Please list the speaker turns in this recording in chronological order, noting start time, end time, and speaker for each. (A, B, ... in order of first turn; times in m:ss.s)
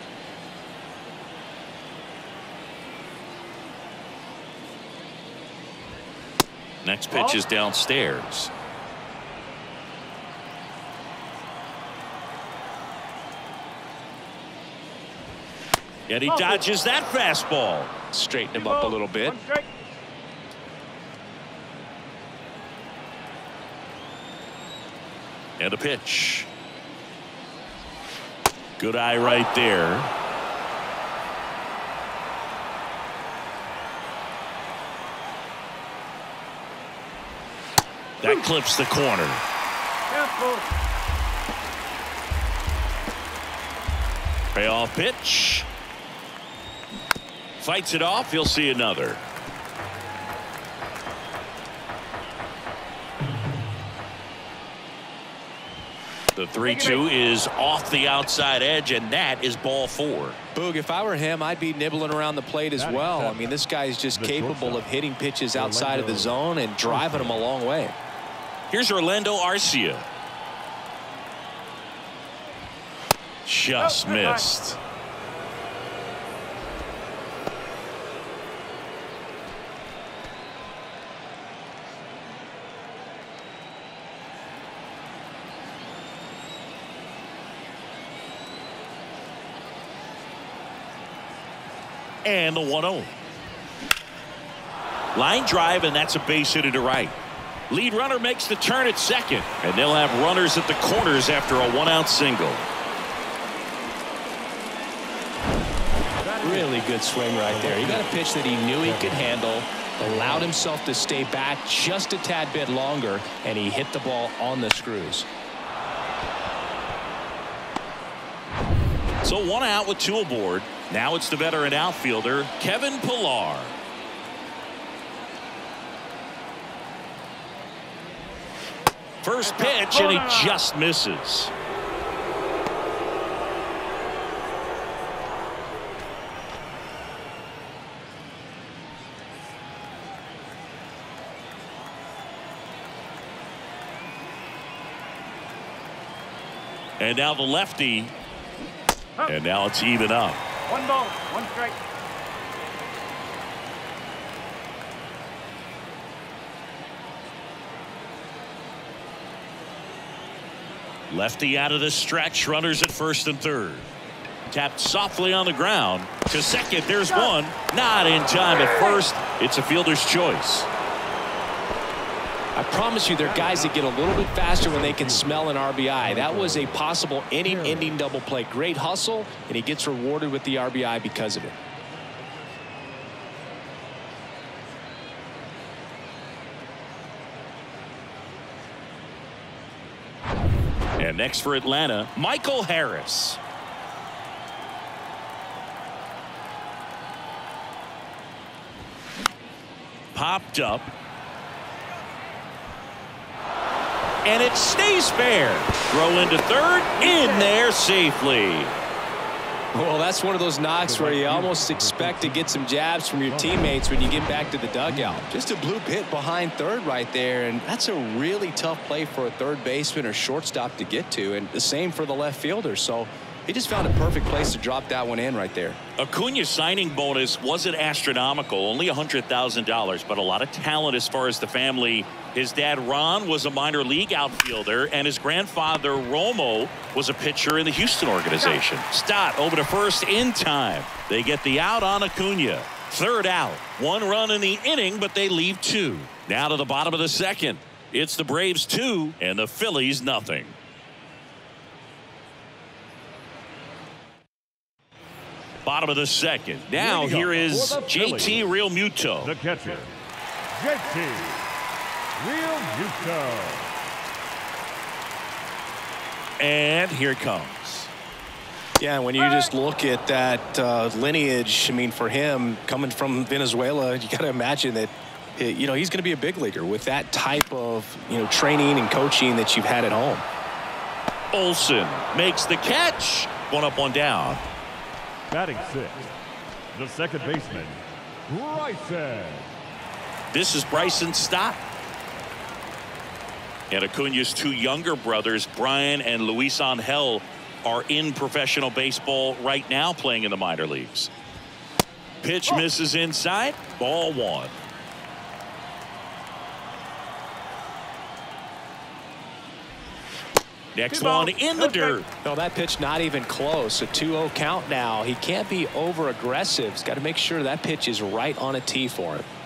0:06.8-0:08.5 A
0:07.1-0:07.4 B
0:16.1-0:17.9 A
0:16.3-0:16.6 B
0:18.1-0:19.4 C
0:18.5-0:19.7 B
0:25.6-0:26.5 A
0:28.8-0:30.1 A
0:38.2-0:39.4 A
0:40.1-0:40.7 B
0:44.5-0:45.6 A
0:47.6-0:49.2 A
0:56.3-1:00.4 A
0:56.6-0:57.0 B
1:00.5-1:07.9 C
1:02.8-1:04.9 D
1:05.5-1:07.4 D
1:08.7-1:10.0 A
1:13.4-1:14.8 A
1:13.8-1:14.5 B
1:32.2-1:33.1 A
1:35.1-1:37.2 A
1:37.7-1:42.7 A
1:46.2-1:46.9 D
1:46.4-1:55.3 C
1:47.4-1:49.4 D
1:50.0-1:50.6 D
1:59.2-2:03.7 A
2:09.2-2:11.5 A
2:09.4-2:10.6 B
2:27.0-2:28.1 A
2:29.3-2:30.4 A
2:30.7-2:31.8 B
2:41.1-2:43.9 A
2:44.5-2:50.7 A
2:52.6-3:01.6 C
2:53.2-2:56.9 D
2:57.4-2:58.0 D
3:11.0-3:13.4 A
3:20.1-3:20.9 A
3:24.2-3:28.7 A
3:29.7-3:45.8 C
3:30.8-3:32.6 D
3:33.2-3:35.2 D
3:46.0-4:10.5 A
4:15.6-4:19.3 A
4:16.7-4:18.4 D
4:19.2-4:19.9 D
4:20.5-4:21.4 D
4:22.2-4:23.7 D
4:26.4-4:27.9 A
4:28.8-4:40.2 C
4:41.3-4:44.4 A
4:45.3-4:46.1 D
4:46.7-4:49.5 D
4:50.3-4:51.6 A
4:53.7-5:01.1 A
5:02.2-5:04.5 A
5:10.7-5:12.1 A
5:10.9-5:12.0 B
5:12.2-5:19.3 C